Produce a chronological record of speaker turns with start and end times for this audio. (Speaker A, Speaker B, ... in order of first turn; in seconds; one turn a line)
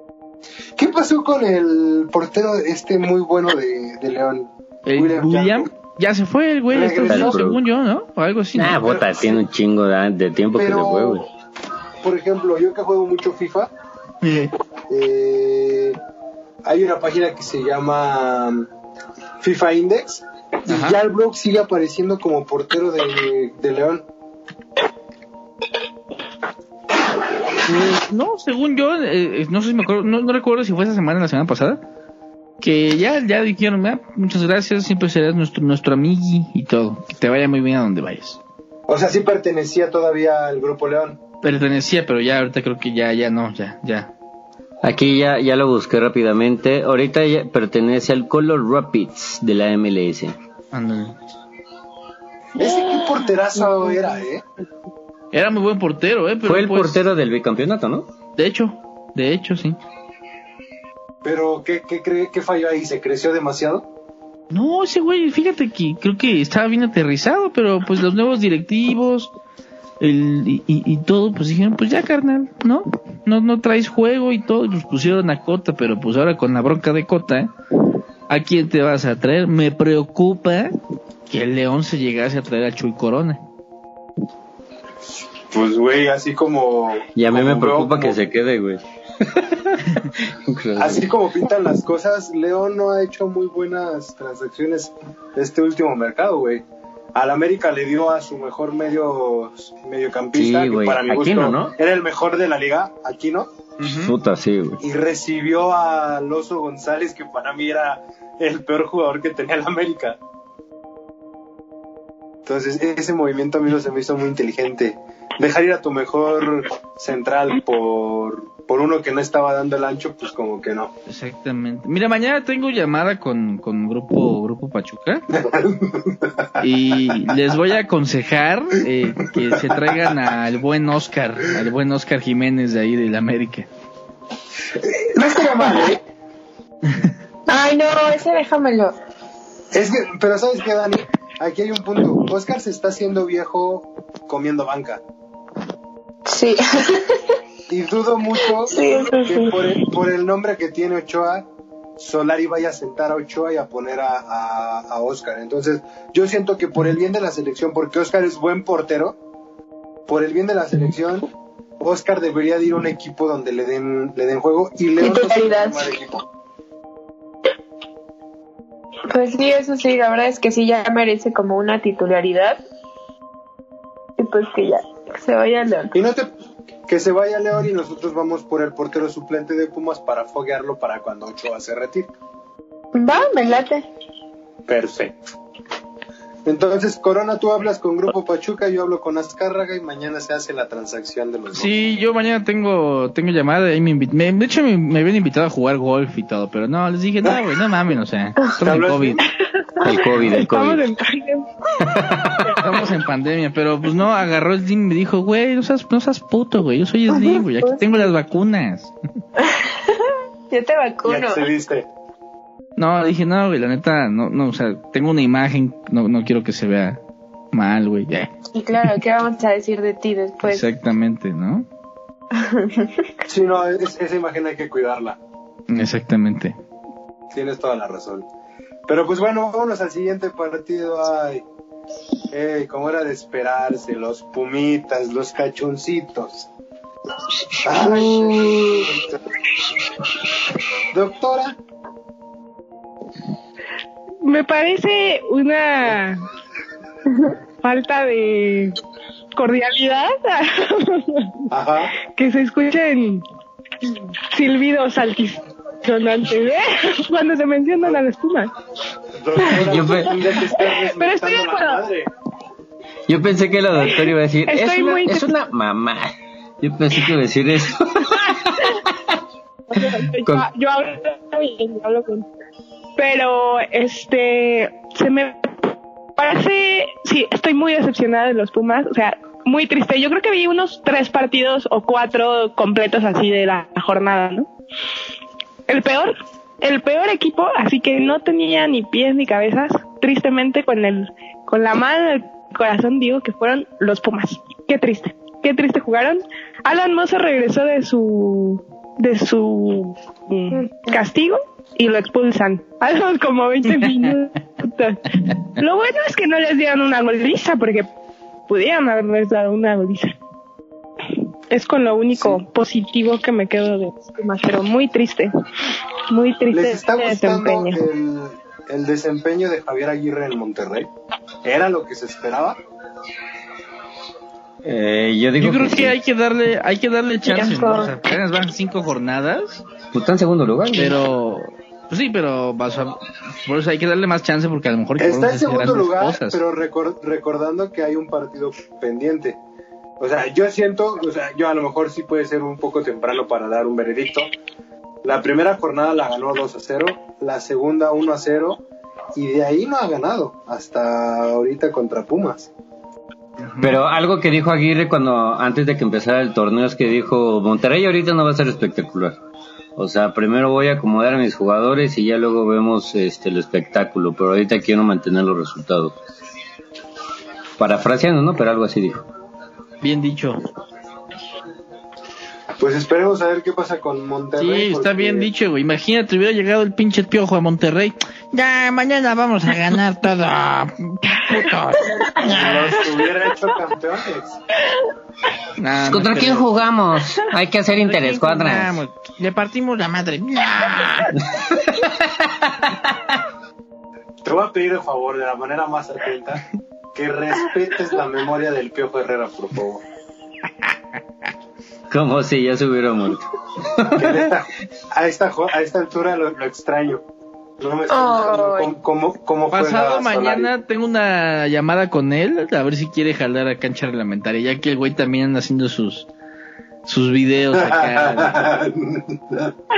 Speaker A: 0.8-5.7
Speaker B: 4.9-8.9
Speaker A: 6.7-7.4
Speaker C: 7.1-7.6
Speaker C: 8.6-11.3
Speaker A: 8.9-9.4
Speaker A: 10.6-11.3
Speaker A: 12.0-13.7
Speaker B: 14.2-14.5
Speaker A: 14.9-16.0
Speaker A: 16.6-18.7
Speaker A: 19.4-24.1
Speaker B: 20.7-21.0
Speaker B: 27.7-31.8
Speaker B: 32.6-38.4
Speaker A: 38.9-41.2
Speaker B: 41.4-44.1
Speaker C: 44.8-50.3
Speaker B: 50.7-51.2
Speaker A: 52.6-54.4
Speaker B: 55.3-57.0
Speaker C: 56.5-58.1
Speaker B: 58.4-59.8
Speaker A: 61.2-63.9
Speaker B: 64.5-69.3
Speaker B: 70.0-77.5
Speaker B: 78.3-80.7
Speaker B: 81.3-83.4
Speaker A: 85.5-88.2
Speaker C: 87.2-91.0
Speaker A: 90.8-96.6
Speaker A: 97.2-103.5
Speaker C: 100.4-101.7
Speaker C: 103.8-104.8
Speaker A: 104.8-110.2
Speaker A: 112.5-120.9
Speaker B: 121.1-125.3
Speaker A: 125.3-126.7
Speaker B: 126.6-133.7
Speaker A: 129.2-130.0
Speaker A: 134.7-136.0
Speaker B: 136.9-137.1
Speaker D: 137.5-138.9
Speaker A: 139.7-145.0
Speaker D: 146.3-147.4
Speaker A: 147.7-159.2
Speaker D: 148.6-149.5
Speaker A: 160.1-161.3
Speaker A: 161.8-166.3
Speaker D: 165.0-165.8
Speaker D: 169.1-172.6
Speaker D: 174.2-176.0
Speaker A: 175.9-176.3
Speaker A: 176.9-182.1
Speaker D: 182.9-183.9
Speaker A: 184.7-185.2
Speaker A: 186.4-191.7
Speaker B: 191.5-199.2
Speaker A: 198.6-199.2
Speaker E: 199.8-202.5
Speaker C: 199.8-200.9
Speaker C: 201.8-202.5
Speaker B: 202.6-208.9
Speaker D: 207.1-208.1
Speaker D: 209.4-211.4
Speaker A: 211.1-211.9
Speaker B: 212.8-217.0
Speaker B: 217.5-218.3
Speaker D: 218.5-220.7
Speaker B: 220.4-221.7
Speaker D: 222.3-223.1
Speaker A: 223.3-225.2
Speaker B: 225.7-226.6
Speaker A: 227.3-228.3
Speaker A: 228.9-231.5
Speaker A: 232.3-236.5
Speaker A: 237.6-239.2
Speaker D: 237.7-239.0
Speaker A: 240.9-241.6
Speaker E: 244.2-246.2
Speaker E: 247.6-248.8
Speaker E: 249.4-251.3
Speaker A: 251.5-251.9
Speaker E: 252.1-253.2
Speaker E: 254.3-258.5
Speaker A: 259.1-262.1
Speaker C: 259.5-260.3
Speaker E: 260.5-261.8
Speaker C: 263.1-268.9
Speaker E: 264.5-265.3
Speaker E: 269.7-272.3
Speaker E: 273.0-275.5
Speaker E: 276.2-284.5
Speaker E: 285.7-307.9
Speaker E: 308.5-310.2
Speaker E: 311.5-315.3
Speaker A: 312.1-312.4
Speaker E: 316.1-317.8
Speaker A: 316.5-320.9
Speaker A: 321.4-322.6
Speaker C: 324.6-325.9
Speaker B: 325.4-329.6
Speaker D: 327.3-327.6
Speaker E: 327.5-327.9
Speaker C: 329.9-331.0
Speaker B: 330.8-336.4
Speaker A: 335.0-339.4
Speaker A: 340.0-344.3
Speaker A: 345.0-348.6
Speaker A: 349.1-352.5
Speaker B: 353.4-353.8
Speaker C: 353.6-359.2
Speaker C: 359.8-366.0
Speaker C: 367.6-369.0
Speaker B: 369.8-370.4
Speaker A: 372.6-375.3
Speaker B: 374.4-382.9
Speaker A: 382.2-384.4
Speaker B: 385.6-386.5
Speaker C: 385.9-388.8
Speaker B: 387.9-391.4
Speaker C: 391.3-392.7
Speaker A: 394.2-399.8
Speaker C: 401.9-404.2
Speaker A: 403.9-407.0
Speaker A: 407.6-410.5
Speaker D: 407.9-408.7
Speaker B: 409.5-416.1
Speaker B: 416.9-418.4
Speaker A: 417.5-419.6